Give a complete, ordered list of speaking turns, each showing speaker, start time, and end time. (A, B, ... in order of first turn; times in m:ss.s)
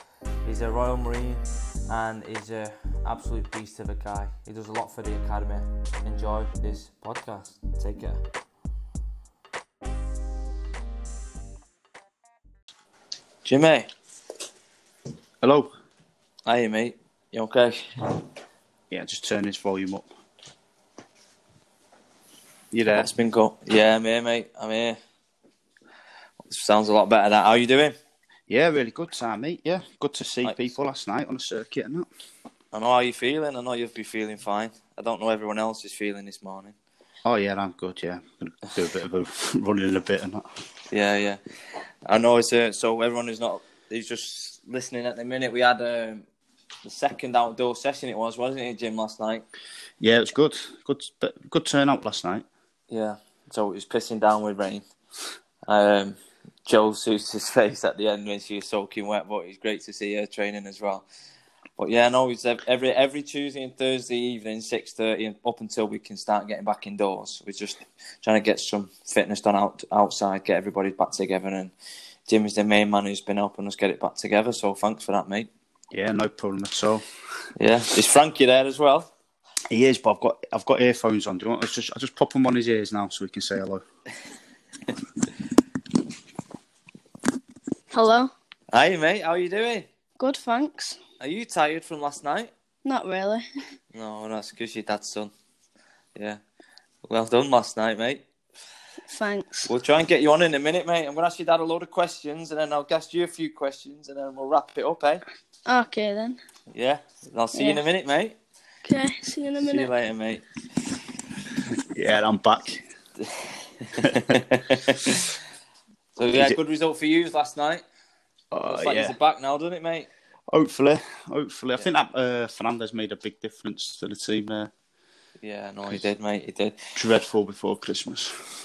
0:00.4-0:08.2 A
0:13.4-0:13.9 A
0:15.4-0:15.7 B
0:16.4-0:17.8 A
0:18.9-0:20.0 B
0:22.7-0:23.1 B
0:22.9-0:25.0 A
0:26.5-0:28.0 A
0:28.5-0:32.1 B
0:32.7-0:36.8 A
0:37.2-0:40.4 B
0:40.9-0:41.4 A
0:42.0-0:46.2 A
0:46.8-0:49.4 A
0:50.0-0:52.4 B
0:52.9-0:54.9 A
0:55.7-1:01.0 A
1:01.8-1:11.7 A
1:12.2-1:15.5 A
1:15.9-1:17.1 B
1:17.6-1:19.1 A
1:19.7-1:23.8 B
1:27.9-1:28.3 C
1:28.7-1:29.9 A
1:30.2-1:31.0 C
1:31.2-1:32.5 A
1:32.8-1:33.5 C
1:33.9-1:35.3 A
1:37.0-1:38.2 A
1:39.1-1:39.7 C
1:39.7-1:45.2 A
1:45.6-1:46.4 C
1:46.7-1:48.4 A
1:47.5-1:47.8 C
1:48.8-1:49.9 C
1:49.6-1:50.4 A
1:51.8-1:52.8 B
1:53.2-1:55.3 A
1:54.0-1:54.4 B
1:56.2-1:57.8 A
1:58.5-1:59.1 B
1:58.6-2:00.1 A
2:00.5-2:04.7 B
2:05.4-2:06.8 A
2:06.9-2:08.5 B